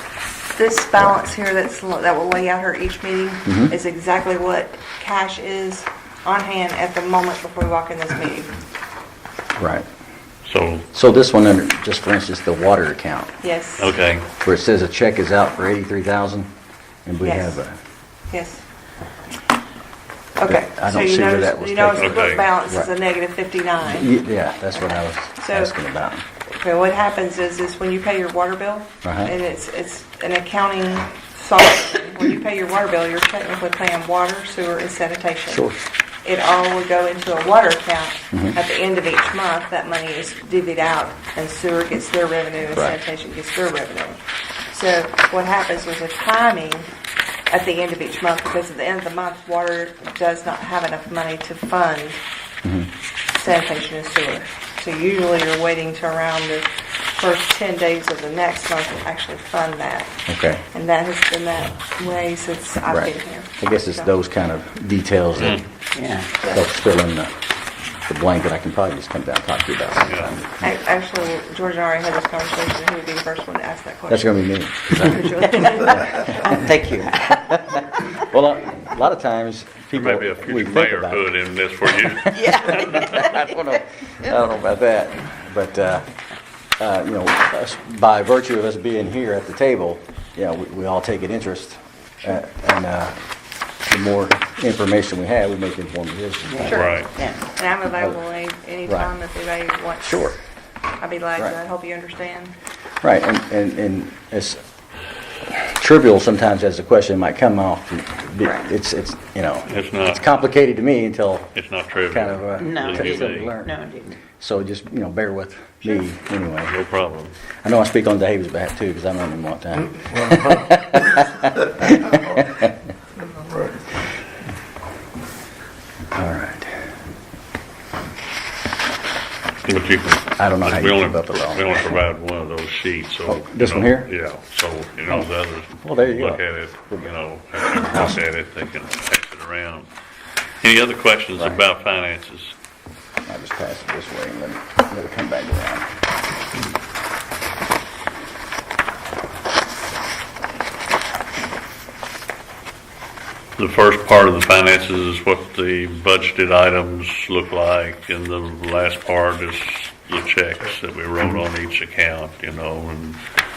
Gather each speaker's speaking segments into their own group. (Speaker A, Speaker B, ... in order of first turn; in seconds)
Speaker A: 0.6-8.5, 13.4-13.9, 17.2-17.6, 18.3-18.6, 20.4-24.1, 24.8-25.7, 26.4-35.7, 36.2-44.2, 44.7-46.9, 47.5-52.2, 53.3-60.2, 60.7-64.1, 66.4-66.7, 70.6-76.5, 96.7-100.3, 101.0-102.5
Speaker B: 1.0-1.2, 3.5-3.7, 9.6-9.9, 10.9-13.3, 14.4-16.5, 17.1-17.8, 20.5-22.9, 23.8-26.2, 29.0-29.3, 35.5-35.8, 38.3-38.6, 52.6-52.9, 60.3-60.6, 62.9-65.6, 66.5-67.3, 68.0-70.7, 74.1-76.6, 77.7-81.2, 82.0-86.1, 86.8-93.2, 93.9-96.8, 97.9-98.2, 98.9-99.1, 100.0-100.4, 103.0-104.6, 105.5-111.5, 112.1-113.8, 114.4-116.8, 117.6-122.8, 126.1-126.9, 130.4-131.8, 133.3-134.1, 135.8-137.1, 137.6-138.2, 141.4-141.6, 143.3-145.9
Speaker C: 10.5-10.8, 13.8-14.3, 22.0-22.5, 65.4-65.6, 79.9-83.2, 96.7-97.1, 109.7-110.4, 111.5-113.5, 116.7-117.3, 129.7-139.9, 140.6-142.5, 153.6-163.2
Speaker D: 65.9-66.3, 76.3-78.0, 82.3-83.6, 96.5-97.5, 112.6-114.2